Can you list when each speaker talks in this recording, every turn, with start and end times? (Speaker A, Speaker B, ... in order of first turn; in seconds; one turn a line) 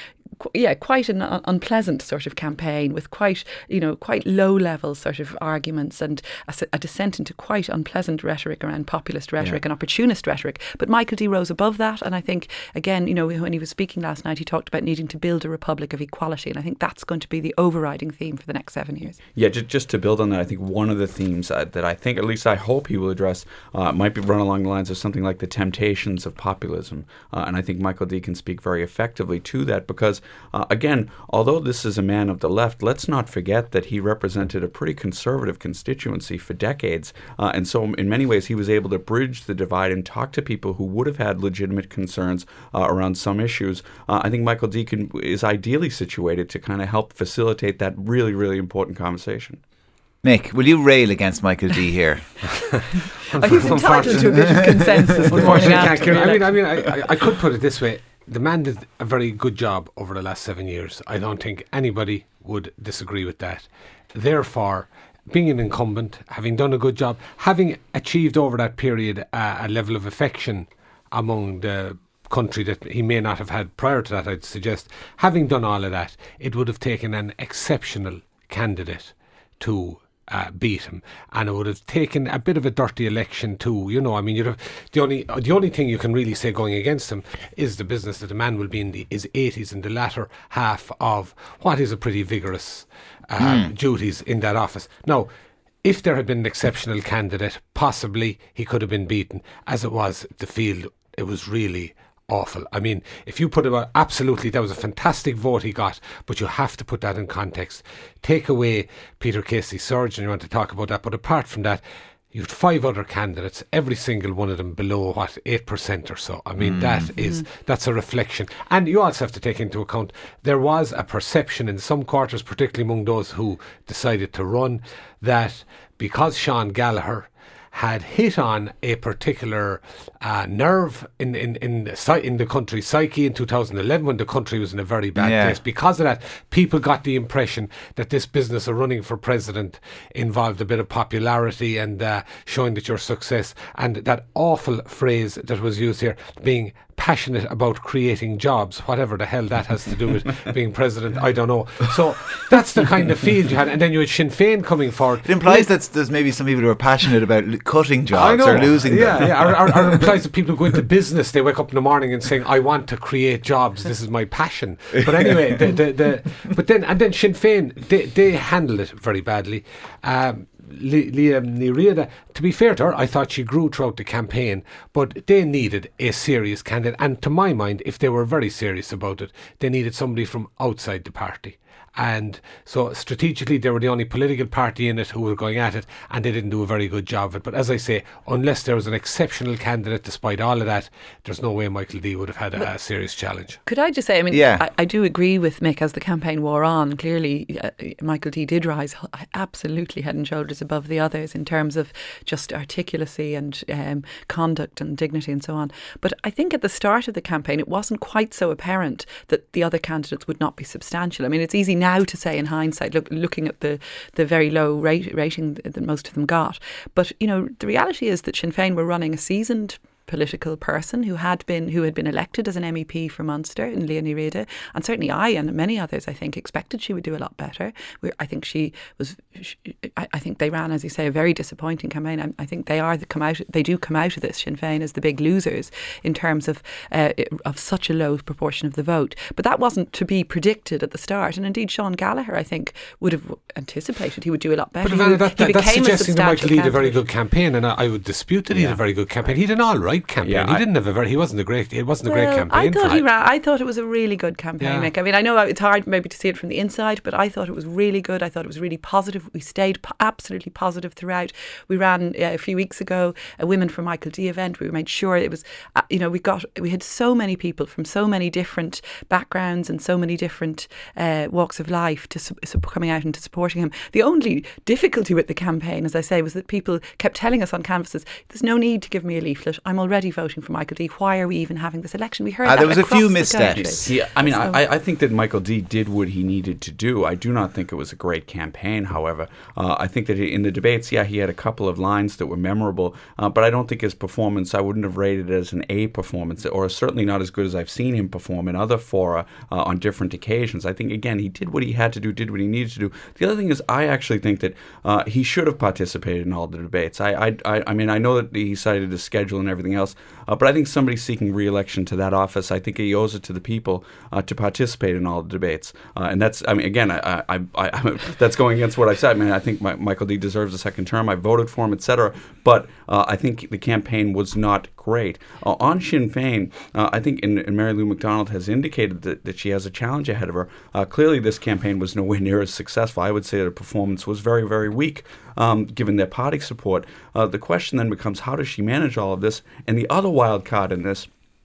Speaker A: 0.4-19.2
Speaker B: 19.4-49.6
Speaker C: 50.2-52.5
Speaker D: 52.8-95.3
Speaker A: 53.4-56.5
Speaker C: 54.0-54.7
Speaker C: 55.2-55.8
Speaker C: 93.4-93.7
Speaker D: 95.8-155.5
Speaker C: 116.6-117.1
Speaker A: 117.2-117.4
Speaker C: 135.2-135.6
Speaker C: 155.2-160.0
Speaker D: 158.1-193.6
Speaker A: 193.7-247.0
Speaker C: 194.3-194.7
Speaker D: 244.8-253.0
Speaker B: 248.5-248.8
Speaker B: 250.2-250.6
Speaker A: 252.0-284.6
Speaker D: 254.6-254.9
Speaker C: 282.4-283.9
Speaker B: 283.6-341.1